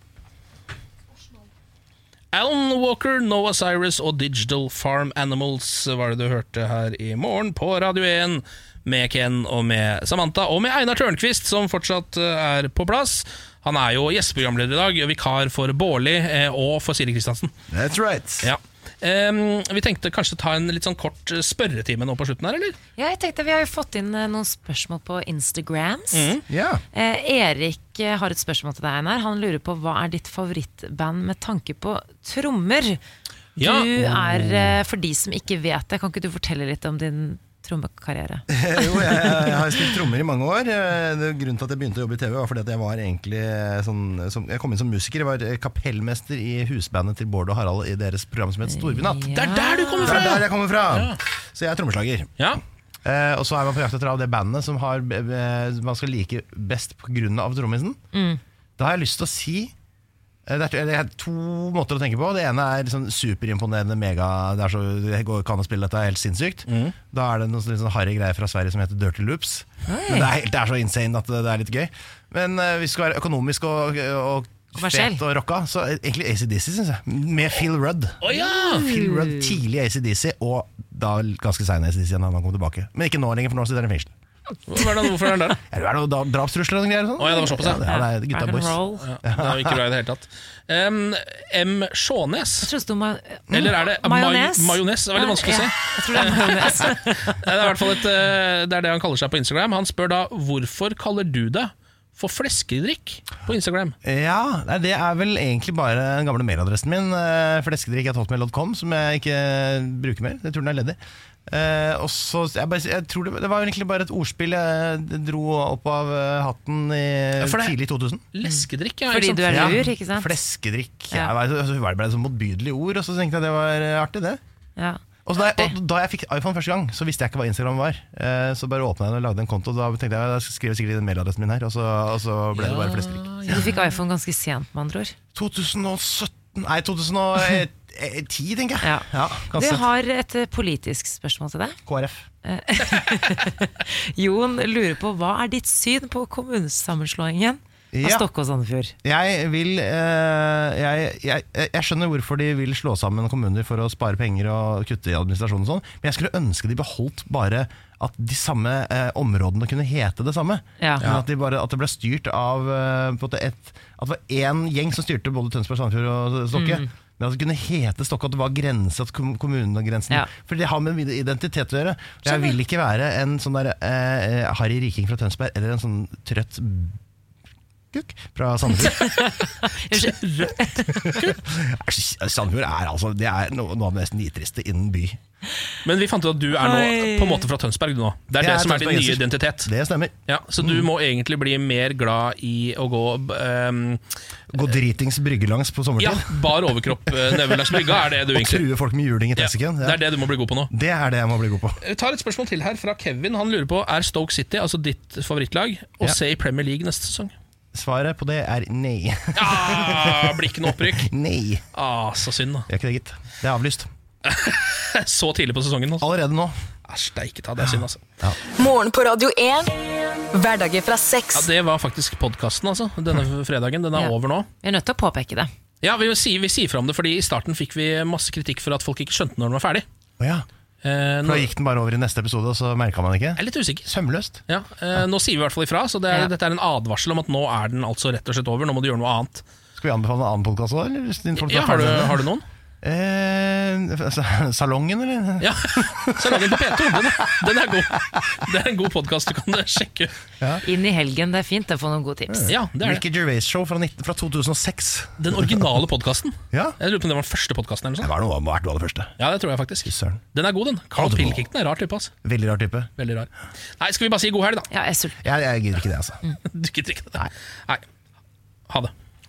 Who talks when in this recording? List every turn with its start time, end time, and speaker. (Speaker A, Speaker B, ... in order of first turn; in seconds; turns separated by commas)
Speaker A: 2.3-17.5, Speaker B: 17.7-18.5, Speaker A: 18.4-22.8, Speaker C: 23.0-26.4, Speaker A: 26.1-26.4, Speaker B: 26.5-26.8, Speaker C: 26.9-33.0, Speaker A: 33.6-34.7, Speaker C: 33.6-39.5, Speaker B: 38.5-49.4, Speaker C: 48.7-50.4, Speaker A: 49.3-51.2, Speaker B: 50.0-52.3, Speaker B: 53.0-58.0, Speaker C: 58.1-58.4, Speaker B: 58.8-59.7, Speaker B: 60.5-84.1, Speaker A: 66.7-67.0, Speaker C: 69.9-70.3, Speaker C: 74.8-75.2, Speaker A: 78.2-79.0, Speaker A: 84.7-85.6, Speaker B: 85.7-89.8, Speaker A: 87.2-87.9, Speaker C: 87.8-89.0, Speaker A: 89.0-92.7, Speaker C: 92.6-97.4, Speaker A: 93.5-104.0, Speaker B: 104.0-118.2, Speaker A: 117.4-117.8, Speaker A: 118.3-119.9, Speaker C: 118.4-120.4, Speaker B: 119.5-124.4, Speaker C: 124.8-125.7, Speaker B: 125.3-133.6, Speaker A: 132.6-133.9, Speaker C: 133.5-135.2, Speaker B: 135.3-139.8, Speaker C: 138.8-141.8, Speaker B: 141.9-142.3, Speaker C: 142.4-148.9, Speaker B: 147.9-148.3, Speaker B: 149.0-177.0, Speaker C: 160.8-161.1, Speaker C: 166.5-166.9, Speaker C: 172.2-172.5, Speaker B: 177.9-179.1, Speaker C: 178.8-181.3, Speaker B: 180.9-185.2, Speaker A: 185.8-189.7, Speaker C: 186.6-187.5, Speaker B: 188.4-190.9, Speaker A: 190.3-194.0, Speaker B: 194.5-196.5, Speaker A: 196.0-198.7, Speaker B: 197.1-200.1, Speaker A: 199.4-200.7, Speaker B: 200.7-201.8, Speaker A: 201.8-207.3, Speaker B: 207.7-211.6, Speaker A: 209.3-211.1, Speaker A: 211.7-212.7, Speaker B: 212.7-213.9, Speaker A: 214.2-216.1, Speaker B: 216.0-216.6, Speaker A: 216.9-218.0, Speaker B: 217.6-218.4, Speaker D: 218.6-219.7, Speaker D: 220.3-221.5, Speaker A: 221.3-224.5, Speaker C: 223.9-225.5, Speaker A: 225.8-229.8, Speaker B: 230.2-230.5, Speaker A: 230.8-231.5, Speaker B: 231.2-234.4, Speaker A: 233.4-233.9, Speaker A: 234.5-239.4, Speaker B: 239.8-242.3, Speaker A: 241.4-242.4, Speaker B: 242.8-247.1, Speaker A: 245.4-250.1, Speaker C: 250.6-252.5, Speaker B: 252.3-255.7, Speaker A: 252.5-253.0, Speaker A: 255.2-258.1, Speaker B: 256.5-256.8, Speaker B: 258.0-259.1, Speaker A: 259.2-262.1, Speaker B: 259.8-260.2, Speaker B: 260.9-261.4, Speaker B: 262.2-262.9, Speaker A: 263.0-263.3, Speaker A: 263.8-264.7, Speaker C: 264.7-265.2, Speaker B: 265.2-266.2, Speaker A: 266.5-267.8